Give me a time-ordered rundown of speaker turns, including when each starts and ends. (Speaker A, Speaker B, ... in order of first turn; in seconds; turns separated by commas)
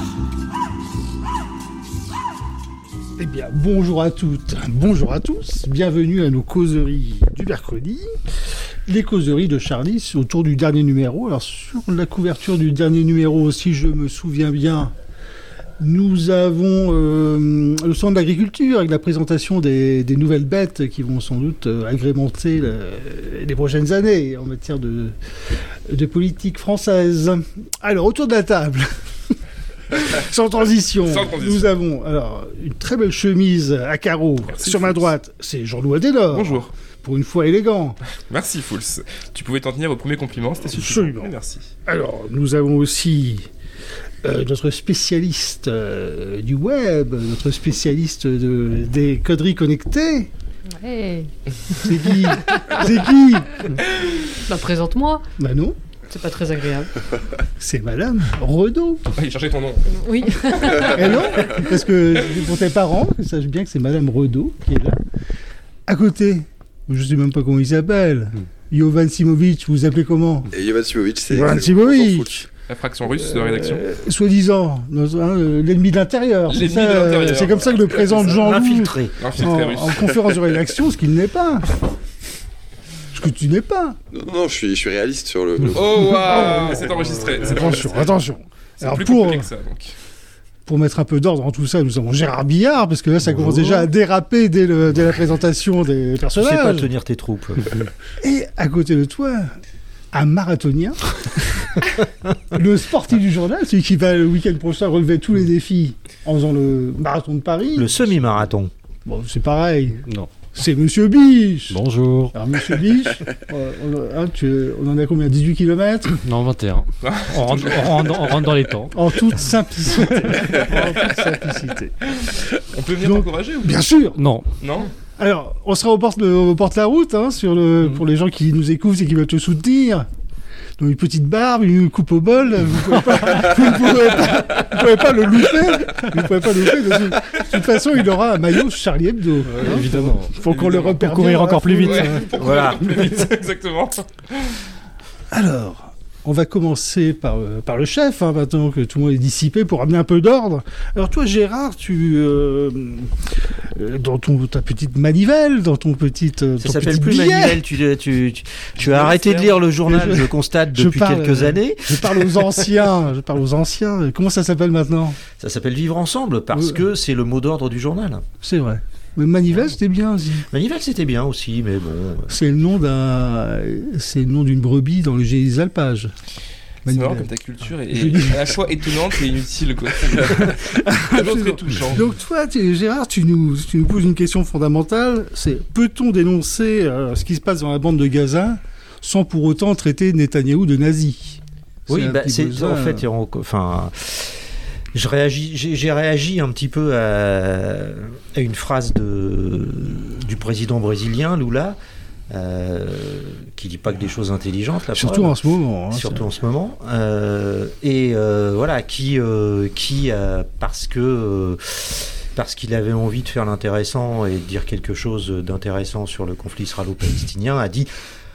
Speaker A: 3.2-8.1, Speaker A: 8.9-14.9, Speaker A: 15.8-25.1, Speaker A: 25.9-29.3, Speaker A: 29.9-38.0, Speaker B: 31.0-31.7, Speaker B: 34.5-35.1, Speaker B: 36.3-36.7, Speaker B: 38.3-41.7, Speaker A: 40.7-41.3, Speaker A: 41.9-43.5, Speaker A: 44.2-50.3, Speaker C: 50.7-51.3, Speaker A: 51.7-53.7, Speaker C: 54.4-55.2, Speaker A: 55.4-55.8, Speaker C: 56.1-56.9, Speaker A: 57.6-59.1, Speaker B: 59.1-61.5, Speaker C: 59.9-61.5, Speaker A: 60.8-65.0, Speaker A: 65.9-70.5, Speaker D: 70.5-72.5, Speaker A: 71.3-72.5, Speaker B: 72.7-73.8, Speaker A: 73.2-81.7, Speaker B: 76.5-78.4, Speaker E: 78.2-79.1, Speaker B: 79.2-80.6, Speaker A: 83.1-84.0, Speaker D: 84.1-86.4, Speaker B: 85.7-88.2, Speaker A: 86.0-89.5, Speaker B: 88.8-89.9, Speaker A: 90.7-96.9, Speaker E: 93.3-93.9, Speaker E: 96.4-97.8, Speaker A: 98.2-99.5, Speaker A: 100.1-107.9, Speaker E: 107.8-108.7, Speaker A: 109.1-111.8, Speaker F: 110.0-110.3, Speaker F: 111.7-112.3, Speaker A: 112.3-116.2, Speaker F: 116.2-119.0, Speaker B: 117.0-118.4, Speaker A: 118.9-121.9, Speaker B: 120.5-121.1, Speaker B: 122.2-123.8, Speaker A: 123.0-124.2, Speaker F: 124.2-124.5, Speaker B: 124.6-124.9, Speaker A: 125.2-130.1, Speaker A: 130.8-142.3, Speaker B: 133.9-134.8, Speaker F: 139.4-142.2, Speaker B: 140.5-141.0, Speaker B: 141.8-144.6, Speaker E: 142.3-142.9, Speaker A: 145.3-153.1, Speaker A: 153.8-157.6, Speaker E: 156.6-162.6, Speaker B: 158.8-159.6, Speaker A: 159.8-165.2, Speaker E: 165.4-168.2, Speaker A: 166.6-166.8, Speaker A: 168.4-170.5, Speaker E: 170.5-172.3, Speaker A: 172.3-176.1, Speaker A: 176.8-177.3, Speaker B: 176.9-182.1, Speaker A: 177.9-178.6, Speaker A: 180.1-193.0, Speaker E: 191.9-201.8, Speaker E: 202.3-205.3, Speaker A: 204.9-206.2, Speaker E: 205.9-217.9